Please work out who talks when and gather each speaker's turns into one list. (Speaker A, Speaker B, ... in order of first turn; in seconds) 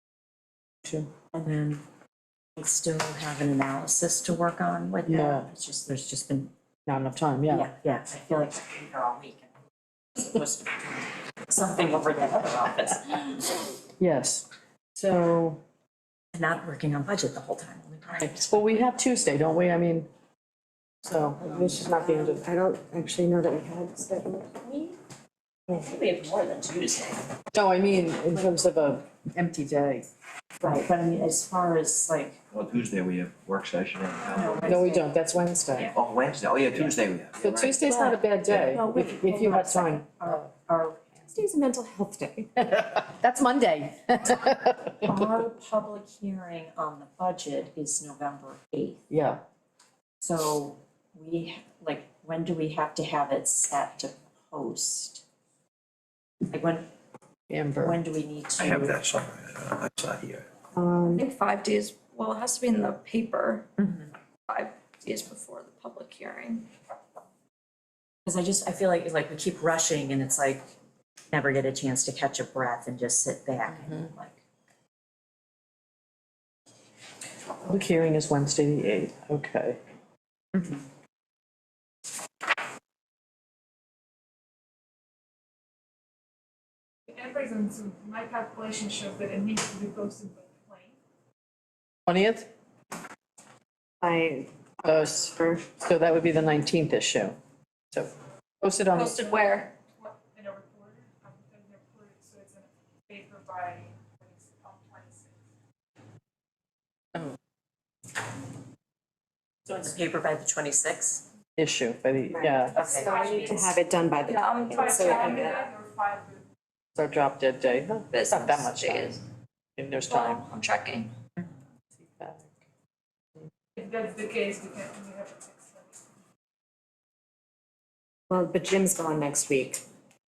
Speaker A: 0.8-1.1, 5.1-5.5, 6.9-7.7, 14.0-15.6, 18.2-20.1, 21.0-22.4, 27.5-30.1, 34.6-35.9, 37.4-40.5, 42.6-45.0, 49.1-49.4, 57.5-58.0, 73.8-74.1, 77.6-79.8, 92.1-92.5, 94.8-97.4, 97.9-99.2, 111.6-112.8, 117.0-119.2, 119.8-120.4, 122.1-122.5
Speaker B: 1.3-1.8, 2.6-6.5, 7.5-9.5, 10.2-13.7, 16.3-18.8, 25.7-27.2, 30.6-32.4, 34.2-35.1, 38.5-41.0, 45.0-49.0, 50.2-55.2, 56.5-56.9, 57.8-59.0, 63.8-64.1, 68.2-70.7, 71.3-74.4, 80.5-80.8, 109.7-111.2, 112.8-113.2
Speaker C: 21.4-24.9, 38.7-39.0, 41.3-42.5, 60.8-61.2, 94.0-94.5, 112.3-115.7, 128.3-129.8
Speaker D: 32.5-34.7, 35.9-37.8, 58.6-60.5
Speaker E: 61.1-63.7, 64.5-66.7, 98.9-99.7, 114.3-115.5, 118.1-119.2, 120.0-121.1
Speaker F: 87.1-91.0, 100.0-105.3, 112.8-113.7, 114.7-116.4, 123.8-125.9